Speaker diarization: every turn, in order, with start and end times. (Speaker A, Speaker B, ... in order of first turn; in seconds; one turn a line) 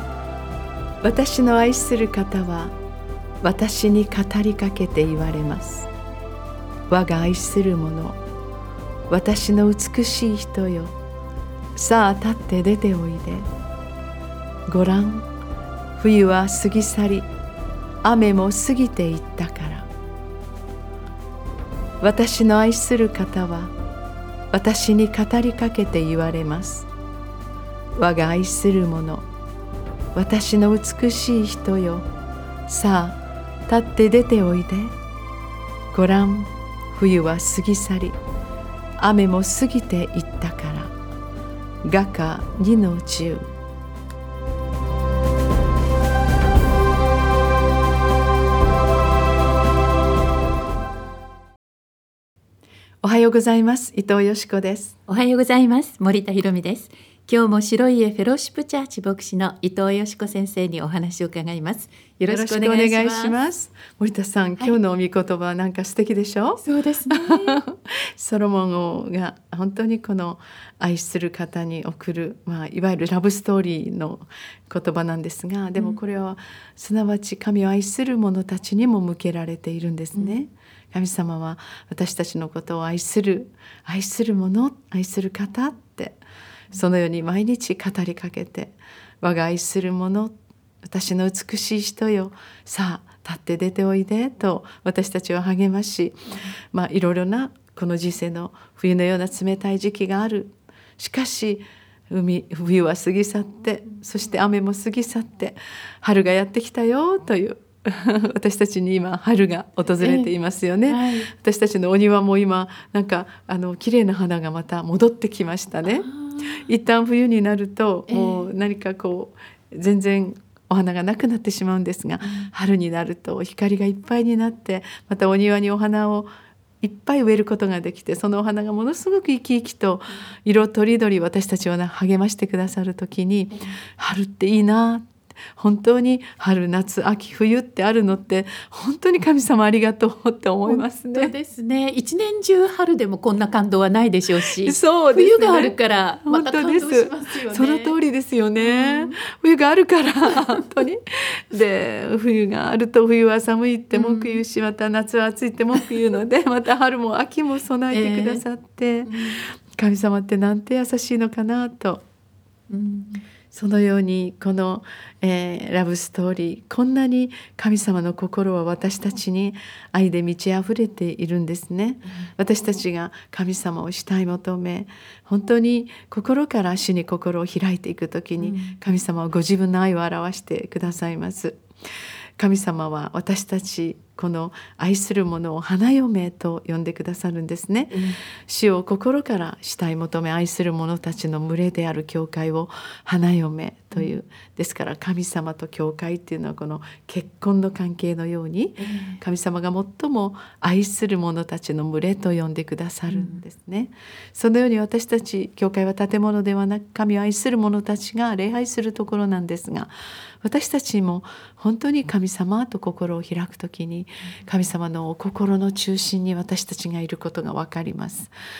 Speaker A: 1.0-2.7
Speaker A: 3.4-5.9
Speaker A: 6.9-8.2
Speaker A: 9.1-10.9
Speaker A: 11.8-13.5
Speaker A: 14.7-15.3
Speaker A: 16.0-17.3
Speaker A: 18.0-19.9
Speaker A: 22.0-23.7
Speaker A: 24.5-26.9
Speaker A: 27.9-29.2
Speaker A: 30.1-32.1
Speaker A: 32.7-34.9
Speaker A: 35.9-38.2
Speaker A: 39.0-40.9
Speaker A: 41.8-43.5
Speaker A: 53.0-55.0
Speaker B: 55.1-63.3
Speaker A: 62.3-126.3
Speaker B: 66.6-67.6
Speaker B: 80.1-80.4
Speaker B: 110.0-110.3
Speaker B: 110.9-111.3
Speaker B: 115.8-116.6
Speaker B: 118.1-118.5
Speaker A: 126.8-135.0
Speaker A: 135.6-141.3
Speaker B: 140.7-147.9
Speaker A: 144.6-162.0
Speaker B: 148.6-149.2
Speaker B: 153.9-154.4
Speaker B: 157.9-158.4
Speaker B: 159.1-159.4
Speaker B: 162.7-163.2
Speaker A: 163.5-181.6
Speaker B: 178.4-178.8
Speaker A: 182.4-209.9
Speaker B: 187.9-188.2
Speaker B: 198.8-199.2
Speaker B: 203.1-203.3
Speaker A: 210.4-218.3